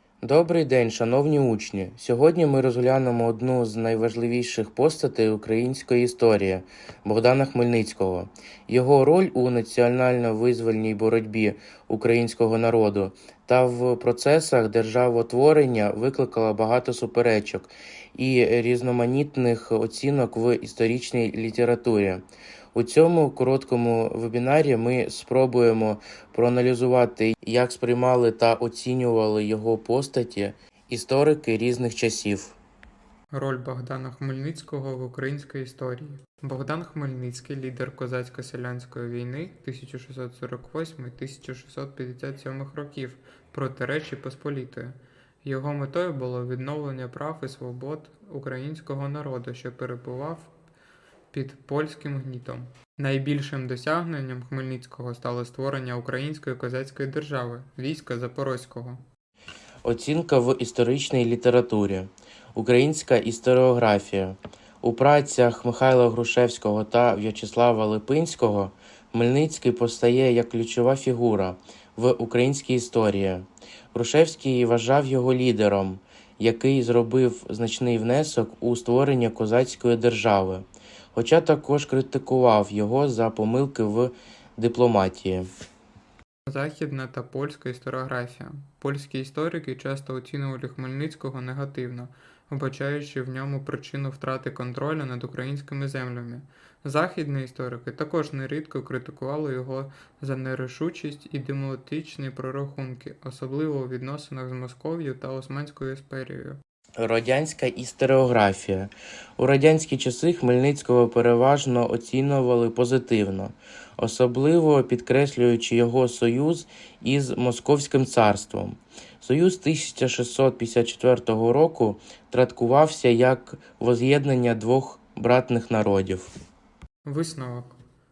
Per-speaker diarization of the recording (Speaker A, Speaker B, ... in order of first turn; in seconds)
Speaker A: 0.2-32.6, 59.8-85.5, 107.0-126.3
Speaker B: 33.3-50.5, 51.3-59.0, 86.5-106.6, 127.0-127.8